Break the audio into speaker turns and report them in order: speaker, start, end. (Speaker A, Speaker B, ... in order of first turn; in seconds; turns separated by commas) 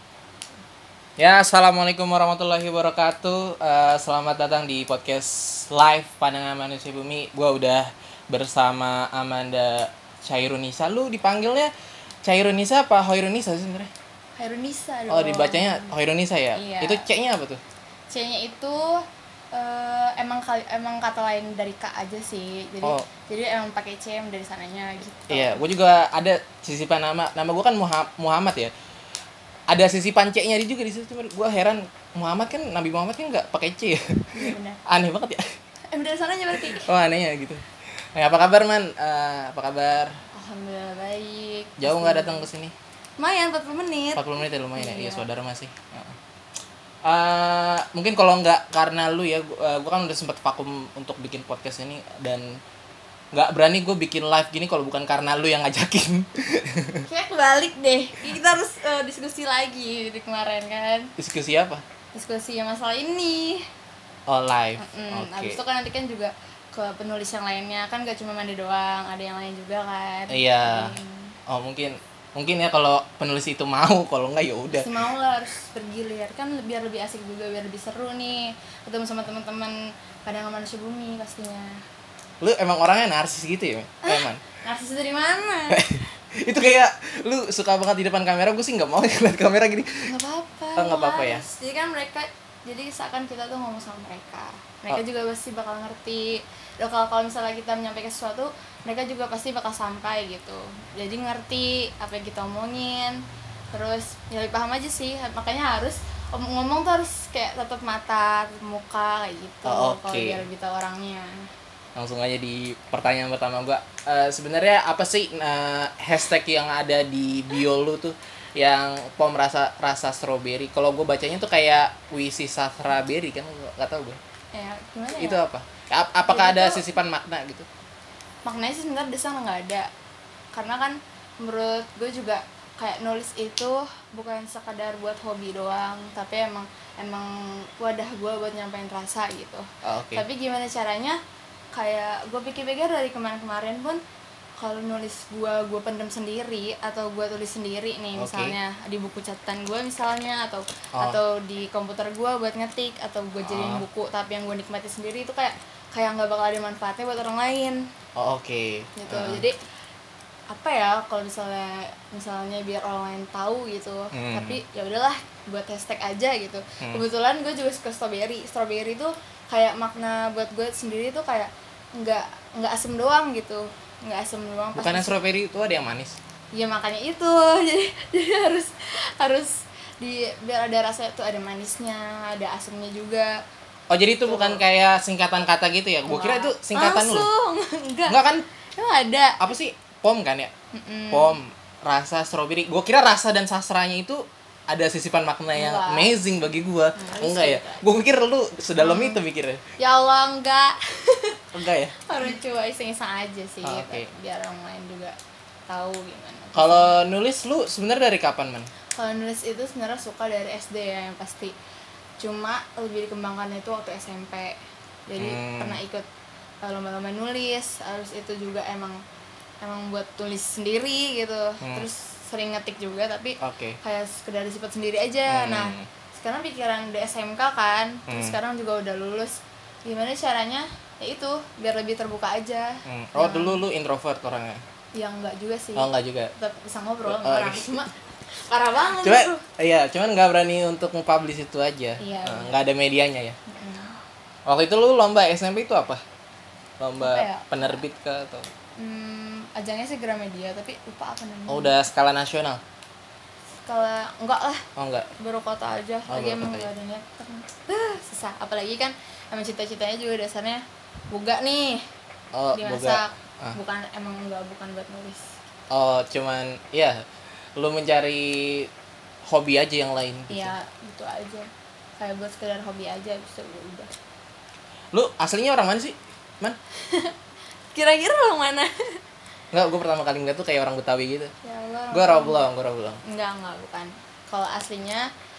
Speaker A: 1.2-11.7, Speaker A: 12.2-13.9, Speaker B: 14.4-15.9, Speaker A: 15.1-17.6, Speaker B: 16.6-17.1, Speaker B: 18.1-25.6, Speaker A: 25.3-28.7, Speaker A: 29.7-35.5, Speaker B: 34.3-34.8, Speaker B: 35.9-36.9, Speaker A: 36.6-40.2, Speaker B: 40.4-42.5, Speaker A: 41.8-42.7, Speaker B: 43.2-45.3, Speaker A: 44.2-46.2, Speaker A: 47.0-52.6, Speaker A: 53.3-57.1, Speaker B: 57.1-61.1, Speaker A: 61.2-61.8, Speaker B: 62.1-63.7, Speaker A: 64.3-65.6, Speaker B: 64.8-71.4, Speaker A: 70.3-71.0, Speaker A: 71.5-74.9, Speaker B: 74.7-81.8, Speaker A: 82.4-84.4, Speaker B: 84.0-85.8, Speaker A: 85.7-90.1, Speaker B: 90.1-111.5, Speaker A: 90.8-91.5, Speaker A: 109.7-110.4, Speaker A: 112.0-124.2, Speaker B: 124.5-125.4, Speaker A: 125.2-127.7, Speaker B: 126.3-126.8, Speaker B: 128.4-129.9, Speaker B: 130.5-141.2, Speaker A: 139.8-140.2, Speaker B: 141.7-144.0, Speaker B: 144.6-157.9, Speaker A: 148.2-148.6, Speaker A: 153.5-153.8, Speaker A: 158.2-159.4, Speaker B: 159.0-159.6, Speaker B: 160.5-175.2, Speaker A: 164.1-164.6, Speaker A: 174.8-176.2, Speaker B: 176.5-183.4, Speaker A: 183.9-187.3, Speaker B: 184.3-184.6, Speaker B: 186.1-188.2, Speaker A: 188.1-188.4, Speaker B: 188.8-189.5, Speaker A: 189.4-190.5, Speaker B: 190.7-191.4, Speaker A: 191.1-199.6, Speaker B: 195.6-196.1, Speaker B: 196.9-197.8, Speaker B: 198.8-199.2, Speaker B: 199.8-201.4, Speaker A: 201.5-201.9, Speaker B: 201.9-205.2, Speaker A: 203.6-204.1, Speaker B: 205.7-206.9, Speaker A: 206.6-208.7, Speaker B: 208.9-211.6, Speaker B: 212.2-216.1, Speaker A: 215.2-215.8, Speaker B: 216.6-219.0, Speaker B: 219.6-233.6, Speaker A: 221.6-221.9, Speaker A: 223.4-223.8, Speaker A: 225.3-225.9, Speaker A: 228.1-228.3, Speaker A: 232.9-234.6, Speaker B: 234.9-237.9, Speaker A: 235.8-236.3, Speaker A: 237.1-237.8, Speaker B: 238.5-239.4, Speaker A: 239.0-243.4, Speaker B: 242.0-242.5, Speaker B: 243.5-244.0, Speaker A: 244.5-246.0, Speaker A: 246.8-248.5, Speaker B: 247.0-247.8, Speaker B: 248.8-251.8, Speaker A: 251.5-252.6, Speaker B: 253.6-254.7, Speaker A: 254.8-255.1, Speaker B: 255.2-261.9, Speaker A: 256.1-256.7, Speaker A: 262.3-263.6, Speaker B: 262.5-265.3, Speaker A: 265.7-267.0, Speaker A: 267.6-268.7, Speaker A: 269.2-270.5, Speaker B: 270.3-273.9, Speaker A: 274.9-276.6, Speaker B: 276.9-277.1, Speaker B: 277.7-279.0, Speaker A: 279.5-281.3, Speaker B: 281.4-282.4, Speaker A: 281.9-283.0, Speaker B: 283.1-285.1